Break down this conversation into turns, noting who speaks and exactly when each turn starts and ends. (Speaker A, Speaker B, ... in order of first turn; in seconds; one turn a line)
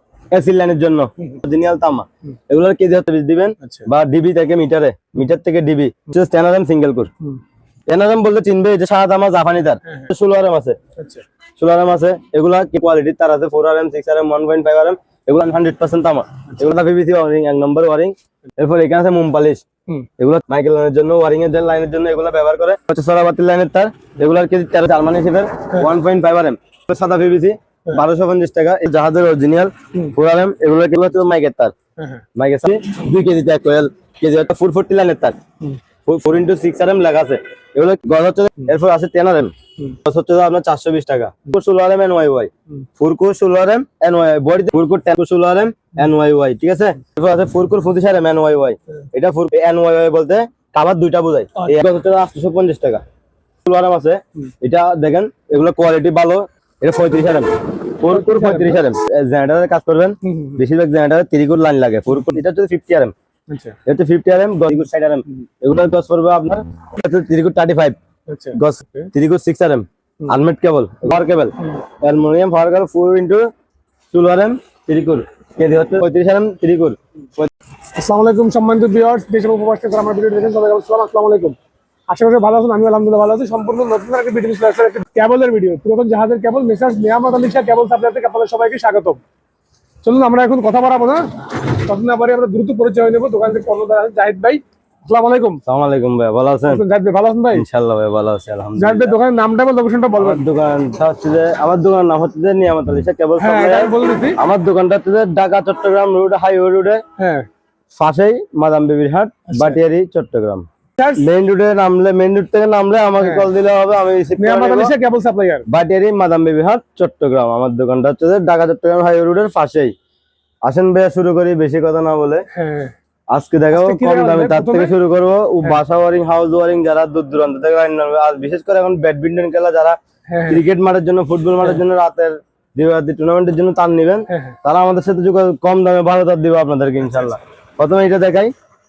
Speaker A: 0.3-7.1
Speaker B: 3.6-3.9
Speaker A: 7.9-10.8
Speaker B: 11.0-11.2
Speaker A: 11.6-19.6
Speaker A: 20.2-31.7
Speaker B: 32.0-32.2
Speaker A: 32.4-35.4
Speaker A: 36.0-53.0
Speaker A: 53.6-63.1
Speaker B: 58.0-58.8
Speaker B: 60.2-60.6
Speaker B: 63.5-63.8
Speaker A: 63.9-68.0
Speaker B: 68.3-69.1
Speaker A: 68.5-73.5
Speaker A: 74.1-77.5
Speaker B: 78.0-81.6
Speaker B: 82.1-89.2
Speaker B: 90.0-95.6
Speaker A: 95.7-96.8
Speaker B: 96.7-97.7
Speaker A: 97.5-99.2
Speaker B: 98.8-100.5
Speaker A: 100.2-107.0
Speaker B: 103.4-104.4
Speaker B: 107.2-107.5
Speaker A: 107.9-114.9
Speaker B: 109.5-109.8
Speaker B: 111.0-111.3
Speaker B: 113.2-113.5
Speaker B: 114.4-115.7
Speaker A: 115.7-120.0
Speaker A: 120.6-122.5
Speaker B: 122.5-122.9
Speaker A: 123.3-138.5
Speaker B: 123.7-125.0
Speaker B: 130.3-130.6
Speaker B: 134.3-134.6
Speaker B: 137.0-137.4